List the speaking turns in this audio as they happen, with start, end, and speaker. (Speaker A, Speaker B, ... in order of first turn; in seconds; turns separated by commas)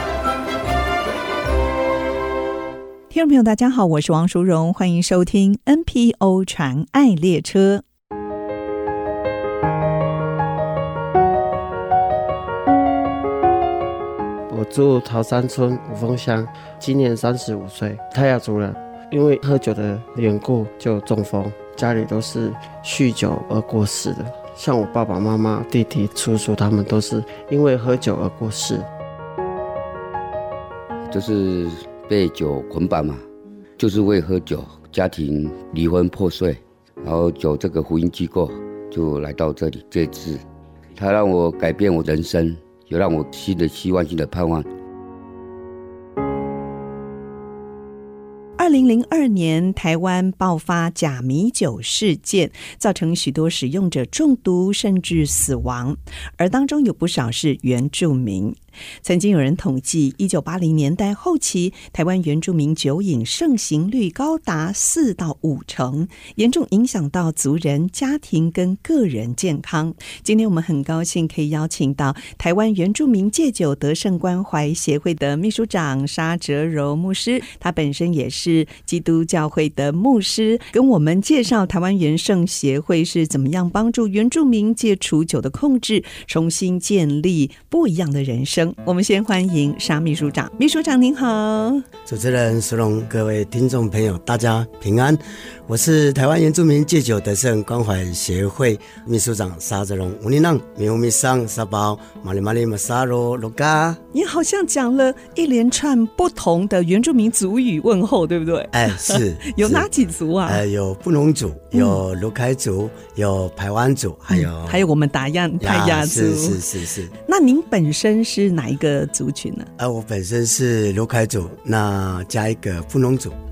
Speaker A: 3.1-7.8, Speaker B: 14.5-28.9, Speaker C: 31.1-33.2, Speaker C: 33.8-40.4, Speaker C: 40.9-44.7, Speaker A: 48.6-91.8, Speaker D: 92.1-104.0, Speaker A: 104.1-110.6, Speaker D: 108.7-109.9, Speaker D: 110.4-114.9, Speaker A: 111.7-112.0, Speaker A: 114.3-116.6, Speaker D: 115.6-117.1, Speaker A: 117.2-119.7, Speaker D: 119.8-123.4